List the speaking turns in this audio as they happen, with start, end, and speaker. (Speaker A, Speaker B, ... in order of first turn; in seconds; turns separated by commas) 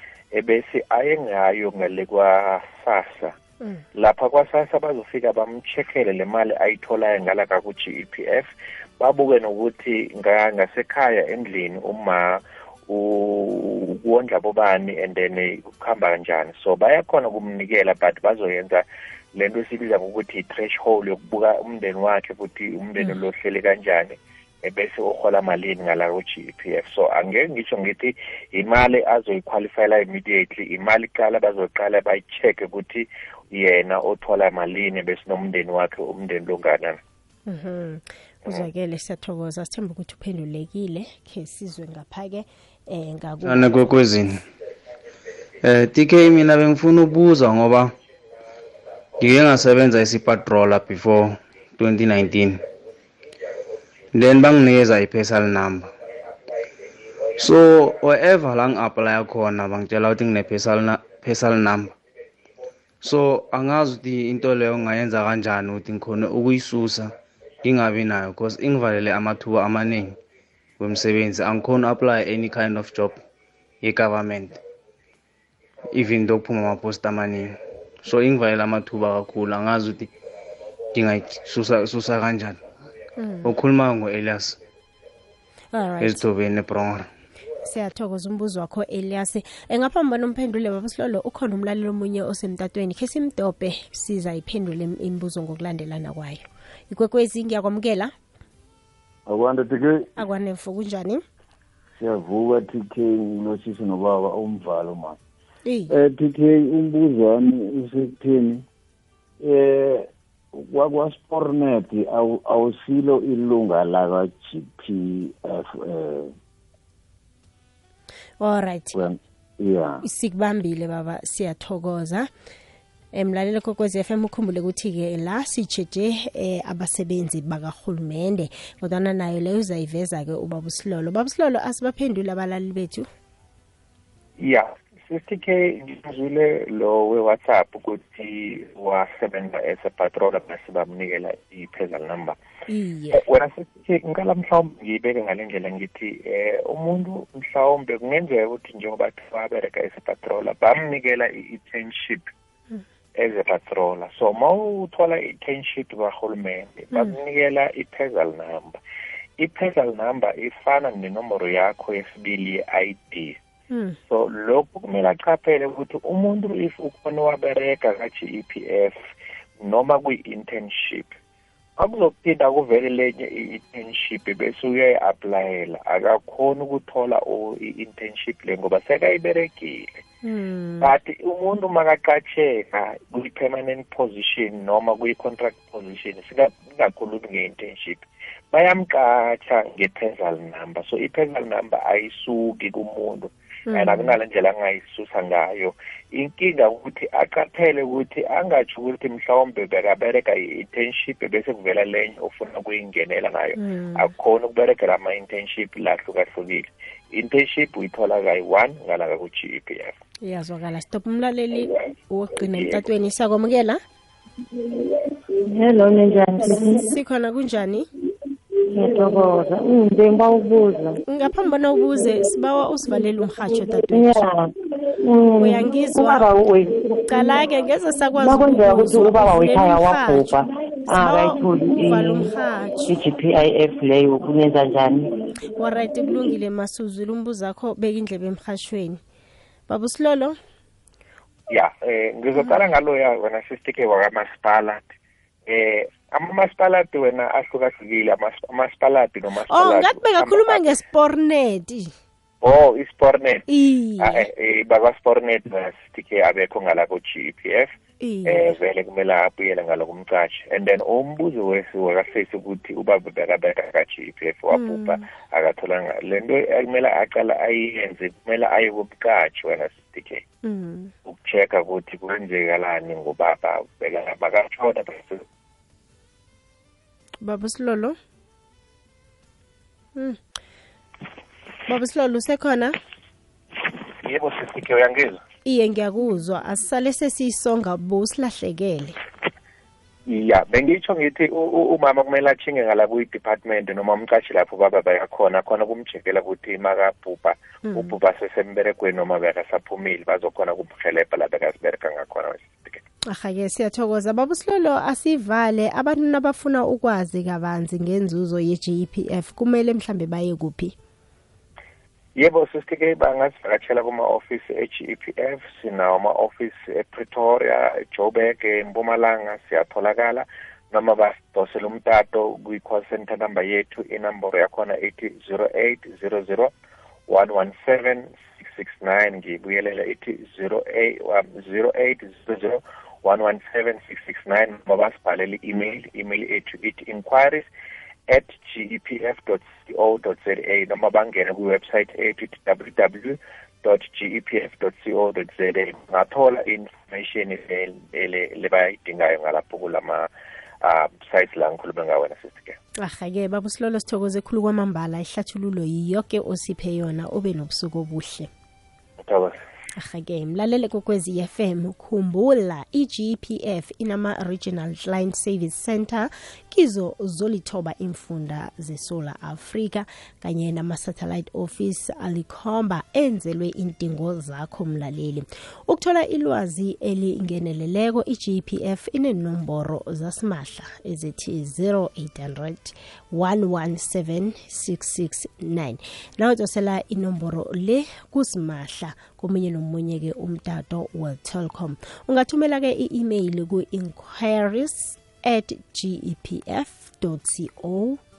Speaker A: 0.3-3.4, Speaker A: 4.0-37.0, Speaker B: 37.5-43.7, Speaker C: 43.5-44.5, Speaker C: 45.6-47.9, Speaker C: 49.2-52.6, Speaker C: 54.1-55.9, Speaker C: 57.4-61.9, Speaker C: 63.0-67.1, Speaker C: 67.6-70.2, Speaker C: 70.8-73.2, Speaker C: 73.8-74.6, Speaker C: 75.9-80.1, Speaker C: 80.9-82.6, Speaker B: 83.2-83.5, Speaker C: 83.5-84.6, Speaker B: 85.7-86.2, Speaker C: 86.0-87.1, Speaker B: 87.7-98.1, Speaker D: 99.3-100.2, Speaker B: 100.2-101.2, Speaker D: 102.0-105.2, Speaker B: 105.7-106.0, Speaker D: 105.9-108.7, Speaker D: 109.4-116.3, Speaker B: 118.4-119.0, Speaker D: 118.9-120.0, Speaker B: 120.0-122.3, Speaker B: 123.1-133.1, Speaker A: 134.4-142.4, Speaker B: 142.7-143.2, Speaker A: 143.1-152.3, Speaker A: 153.2-158.8, Speaker A: 159.4-163.4, Speaker B: 163.7-164.0, Speaker A: 164.1-169.0, Speaker A: 169.6-171.2, Speaker A: 171.8-180.0, Speaker B: 180.2-180.9, Speaker A: 180.8-209.9, Speaker B: 193.7-194.2, Speaker B: 203.6-204.1, Speaker B: 210.2-213.8, Speaker A: 212.5-212.8, Speaker E: 215.3-216.9, Speaker B: 216.5-217.9, Speaker E: 218.7-221.0, Speaker B: 221.1-224.2, Speaker E: 223.9-227.4, Speaker B: 225.4-226.3, Speaker B: 227.1-230.4, Speaker E: 228.2-232.3, Speaker B: 230.9-232.9, Speaker E: 232.9-235.1, Speaker B: 235.6-239.0, Speaker B: 239.7-240.4, Speaker A: 241.5-244.9, Speaker A: 245.5-250.8, Speaker B: 249.5-251.9, Speaker A: 252.4-253.5, Speaker B: 253.5-254.3, Speaker A: 254.0-257.7, Speaker B: 258.0-258.6, Speaker A: 258.2-270.2, Speaker B: 264.5-265.0, Speaker B: 270.4-270.9, Speaker A: 271.1-275.2, Speaker B: 277.2-278.0, Speaker B: 281.7-282.8, Speaker A: 284.0-285.2, Speaker B: 285.4-289.0, Speaker A: 290.1-302.8, Speaker B: 297.6-298.0, Speaker B: 303.1-310.8, Speaker A: 312.2-326.5, Speaker A: 327.1-337.5, Speaker A: 338.1-350.1, Speaker A: 350.6-352.6, Speaker B: 352.8-358.3, Speaker A: 359.0-359.4, Speaker B: 359.8-398.0